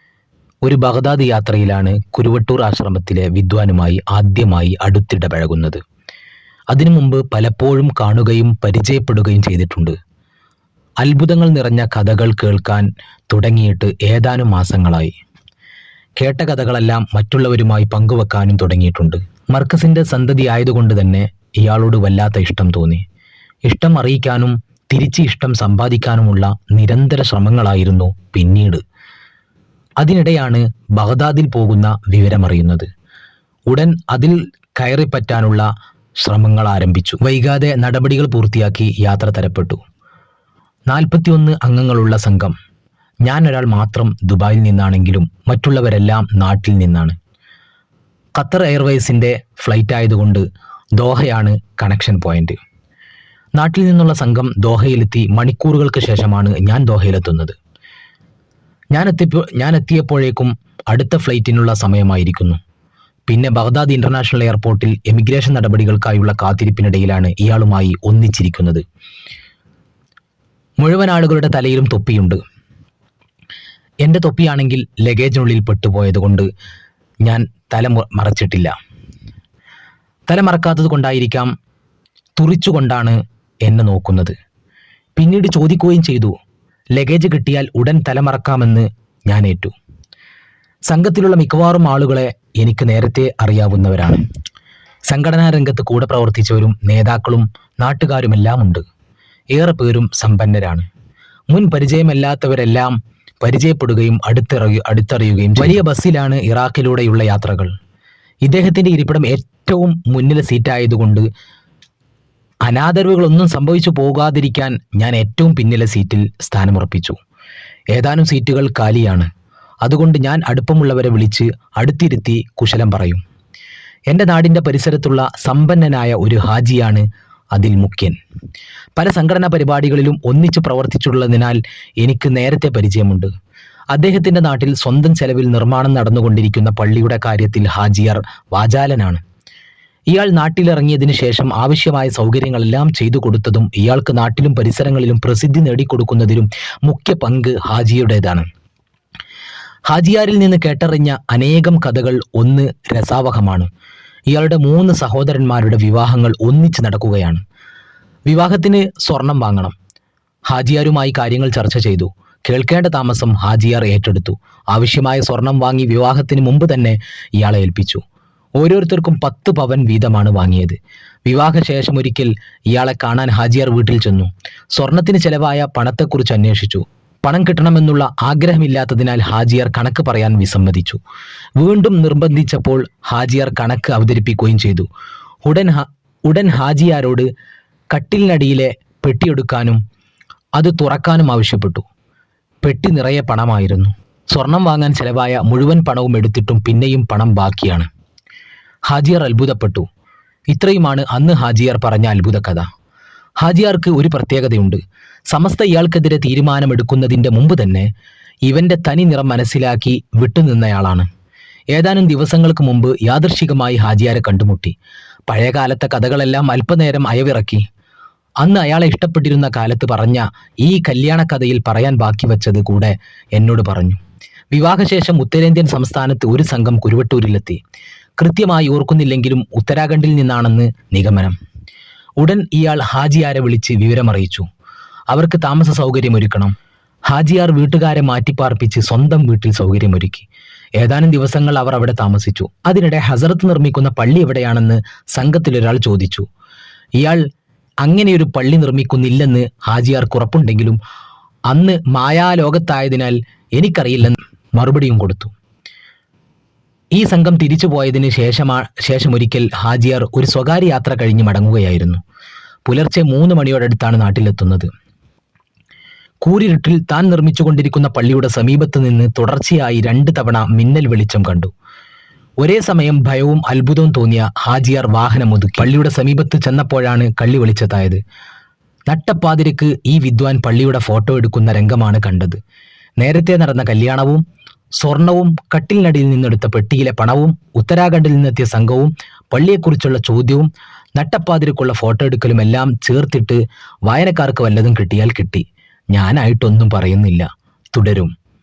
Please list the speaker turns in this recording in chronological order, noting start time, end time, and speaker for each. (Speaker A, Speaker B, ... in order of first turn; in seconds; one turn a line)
Speaker A: 0.6-5.8
Speaker A: 6.7-9.9
Speaker A: 11.0-15.1
Speaker A: 16.2-23.0
Speaker A: 23.6-28.8
Speaker A: 30.0-32.9
Speaker A: 33.7-35.7
Speaker A: 36.2-39.8
Speaker A: 40.9-42.5
Speaker A: 43.2-47.1
Speaker A: 48.4-50.4
Speaker A: 51.0-52.6
Speaker A: 53.6-57.5
Speaker A: 58.9-62.6
Speaker A: 63.3-68.8
Speaker A: 70.8-72.4
Speaker A: 74.0-76.5
Speaker A: 77.2-78.7
Speaker A: 80.3-81.5
Speaker A: 82.4-84.3
Speaker A: 85.2-86.3
Speaker A: 87.0-89.7
Speaker A: 90.9-94.2
Speaker A: 95.1-98.8
Speaker A: 99.5-100.9
Speaker A: 101.5-107.7
Speaker A: 108.4-111.2
Speaker A: 112.7-117.2
Speaker A: 117.9-119.3
Speaker A: 119.8-123.2
Speaker A: 124.1-128.2
Speaker A: 128.9-133.3
Speaker A: 133.9-139.2
Speaker A: 140.1-148.5
Speaker A: 149.9-153.7
Speaker A: 154.3-157.4
Speaker A: 158.3-159.7
Speaker A: 160.5-168.0
Speaker A: 168.6-181.0
Speaker A: 181.6-184.9
Speaker A: 185.4-187.3
Speaker A: 187.9-189.8
Speaker A: 190.6-191.8
Speaker A: 192.6-197.9
Speaker A: 198.9-199.9
Speaker A: 200.5-202.7
Speaker A: 203.4-207.9
Speaker A: 208.4-211.1
Speaker A: 211.7-214.7
Speaker A: 215.3-217.6
Speaker A: 218.4-224.0
Speaker A: 224.5-227.6
Speaker A: 228.2-231.3
Speaker A: 232.2-234.4
Speaker A: 235.1-236.5
Speaker A: 237.1-240.3
Speaker A: 240.8-246.3
Speaker A: 247.0-247.2
Speaker A: 247.8-250.8
Speaker A: 251.5-255.3
Speaker A: 256.9-262.0
Speaker A: 262.6-264.7
Speaker A: 266.2-271.5
Speaker A: 272.4-278.0
Speaker A: 278.9-282.4
Speaker A: 283.0-284.2
Speaker A: 284.8-298.1